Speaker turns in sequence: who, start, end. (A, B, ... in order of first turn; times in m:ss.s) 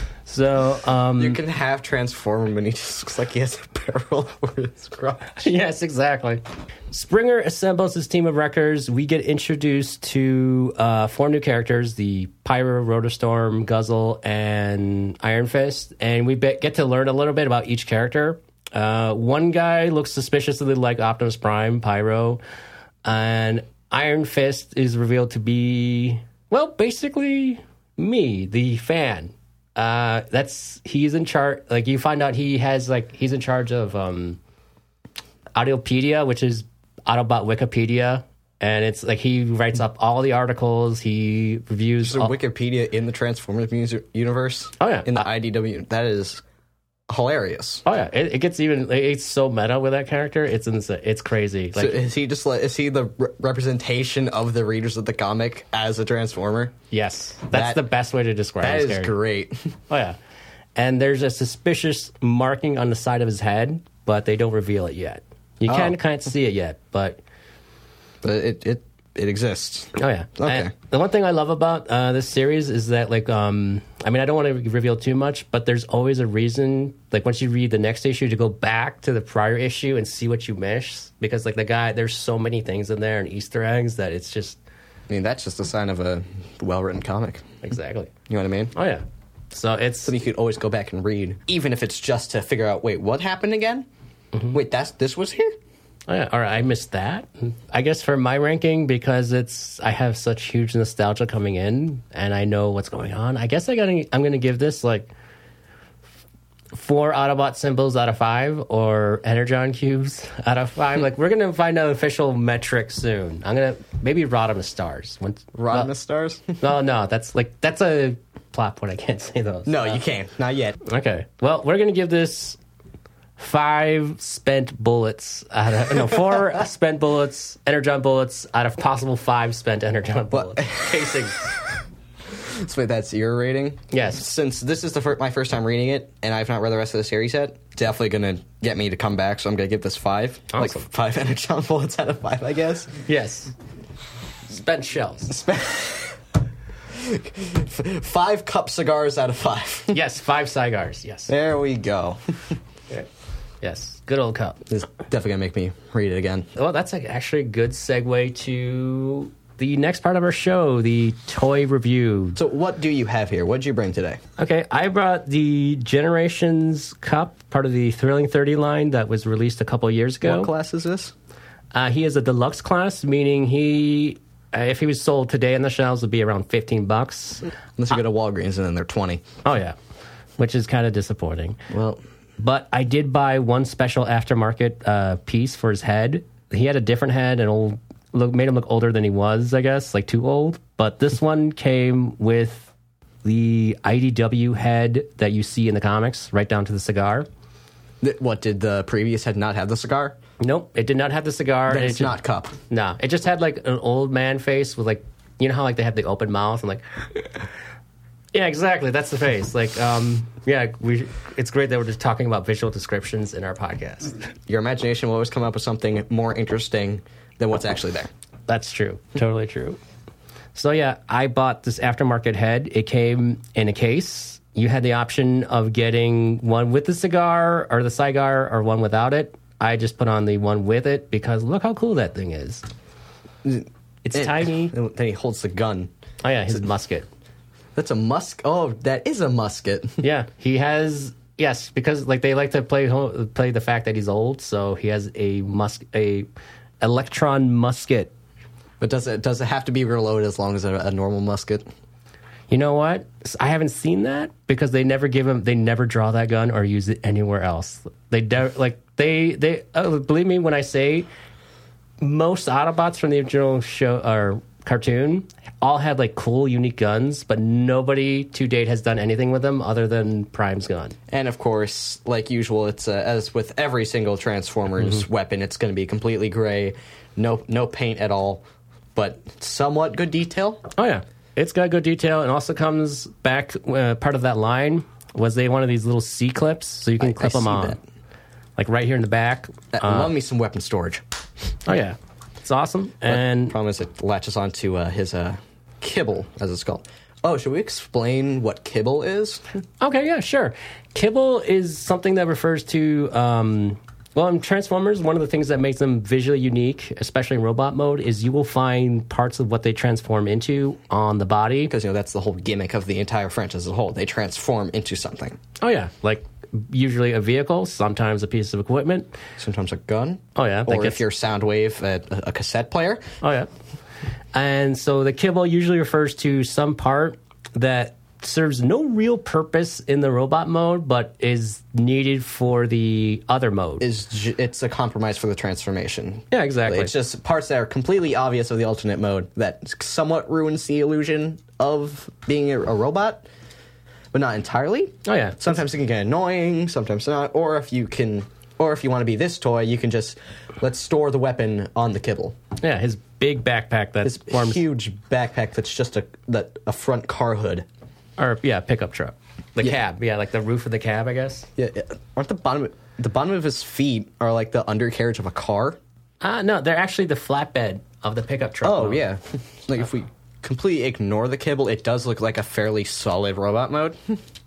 0:00.2-0:01.4 A
0:01.2-0:05.4 B
0:05.4-0:22.4 A
0:23.0-0:34.4 A
0:35.5-0:42.3 A
0:42.0-0:46.4 B
0:44.8-0:45.3 A
0:47.1-0:47.8 B
0:47.8-0:52.0 A
0:51.8-0:56.7 B
0:56.9-0:59.1 A
0:57.5-0:57.8 B
0:58.6-0:59.7 B
0:59.9-1:00.2 A
1:00.7-1:07.2 A
1:05.7-1:06.0 B
1:08.2-1:10.7 B
1:10.0-1:24.6 A
1:25.1-1:27.6 B
1:27.6-1:28.1 A
1:28.3-1:28.7 B
1:28.7-1:30.1 A
1:30.0-1:33.8 B
1:34.5-1:35.6 B
1:36.1-1:45.1 A
1:46.7-1:55.9 A
1:55.5-1:56.6 B
1:56.6-2:00.0 A
1:59.6-2:00.8 B
2:00.8-2:02.6 A
2:03.4-2:11.6 A
2:10.3-2:23.0 B
2:13.9-2:14.2 A
2:20.5-2:20.8 A
2:23.0-2:23.5 A
2:24.5-2:25.4 A
2:25.3-2:26.2 B
2:26.9-2:30.0 B
2:29.9-2:31.3 A
2:31.3-2:32.6 B
2:33.6-2:34.6 A
2:34.7-2:36.5 B
2:36.5-2:42.4 A
2:42.4-2:44.2 B
2:44.4-2:50.5 A
2:50.2-2:51.1 B
2:51.7-2:57.5 A
2:57.8-2:59.2 B
2:59.4-2:59.8 A
3:00.4-3:01.6 A
3:01.7-3:02.0 B
3:02.4-3:12.7 A
3:13.2-3:17.3 A
3:18.0-3:20.2 B
3:20.4-3:22.2 A
3:21.7-3:22.6 B
3:22.7-3:27.3 A
3:28.3-3:34.2 A
3:34.5-3:38.1 B
3:38.5-3:39.8 A
3:40.5-3:52.6 A
3:53.4-3:55.9 B
3:54.0-3:54.7 A
3:56.2-3:57.1 A
3:57.8-4:00.0 B
4:00.0-4:06.3 A
4:06.8-4:08.1 A
4:08.8-4:11.6 B
4:12.5-4:21.1 A
4:22.0-4:31.0 A
4:31.1-4:38.4 B
4:39.0-4:40.6 B
4:40.7-4:47.8 A
4:47.0-4:47.8 B
4:48.6-4:50.1 A
4:49.7-4:51.0 B
4:51.6-4:53.5 A
4:53.1-4:59.4 B
4:59.8-5:11.7 A
5:11.7-5:15.4 B
5:15.6-5:19.1 A
5:19.4-5:23.1 B
5:20.3-5:21.0 A
5:23.2-5:23.5 A
5:24.3-5:33.8 A
5:33.8-5:43.3 B
5:36.3-5:36.9 A
5:44.1-5:52.4 B
5:45.0-5:45.4 A
5:52.6-5:54.6 A
5:54.0-5:57.6 B
5:58.2-6:01.5 A
6:01.6-6:05.8 B
6:06.2-6:09.0 A
6:08.6-6:14.2 B